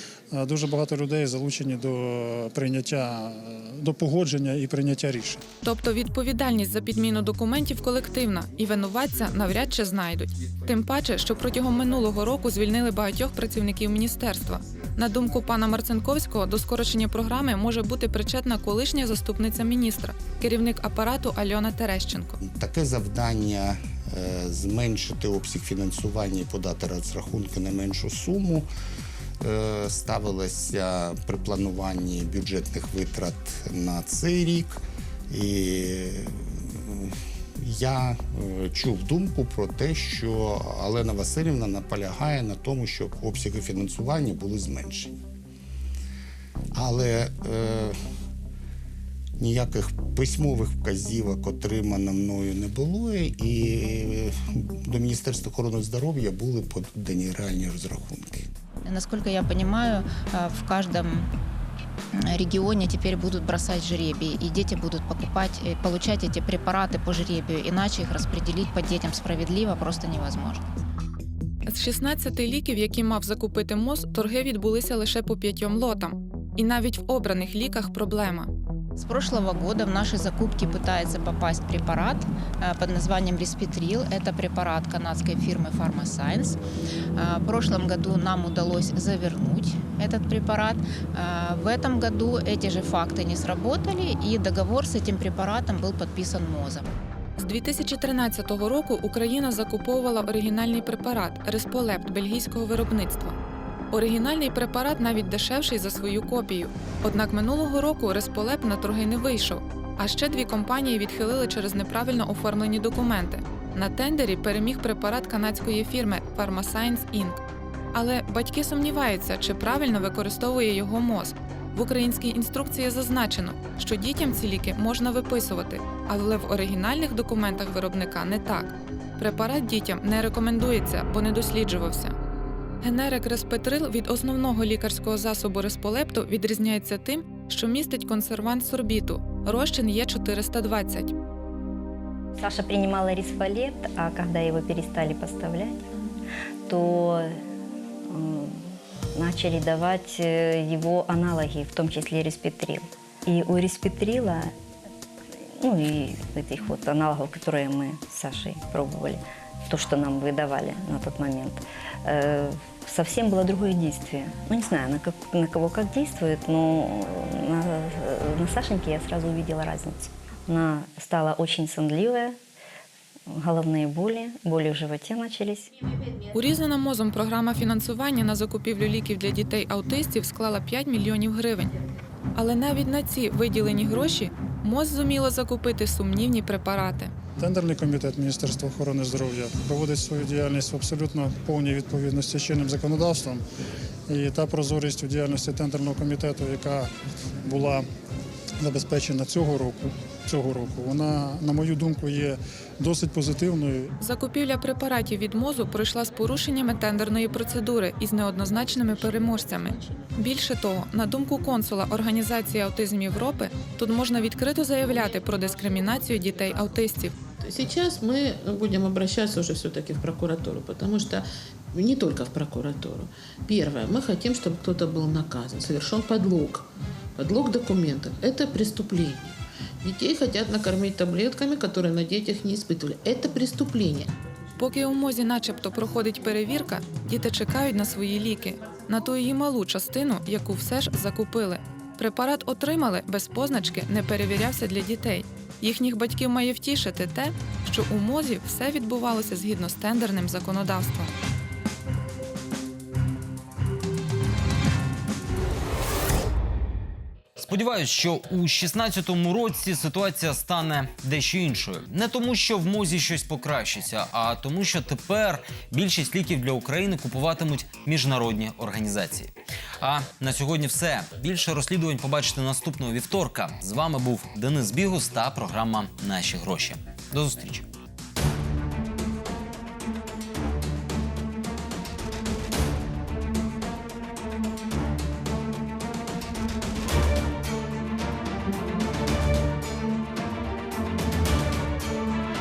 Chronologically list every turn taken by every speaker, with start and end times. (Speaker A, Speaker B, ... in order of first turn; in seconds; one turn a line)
Speaker A: 0.3-5.4
Speaker B: 5.6-22.4
Speaker C: 22.4-28.7
Speaker C: 29.4-45.1
Speaker C: 46.7-48.0
Speaker C: 49.4-58.5
Speaker D: 58.8-61.3
Speaker D: 62.1-70.7
Speaker B: 71.7-78.5
Speaker D: 79.0-86.6
Speaker D: 87.2-96.9
Speaker B: 97.4-103.4
Speaker B: 103.9-117.4
Speaker B: 117.9-132.1
Speaker B: 132.8-141.1
Speaker E: 142.4-145.9
Speaker E: 146.7-147.4
Speaker E: 148.1-154.5
Speaker E: 155.4-172.4
Speaker E: 173.3-175.7
Speaker B: 176.3-181.7
Speaker B: 182.3-187.1
Speaker A: 187.4-193.4
Speaker A: 194.1-196.9
Speaker A: 197.4-197.9
Speaker A: 198.6-203.9
Speaker B: 204.0-217.2
Speaker F: 217.4-234.1
Speaker B: 234.6-251.1
Speaker G: 257.4-277.7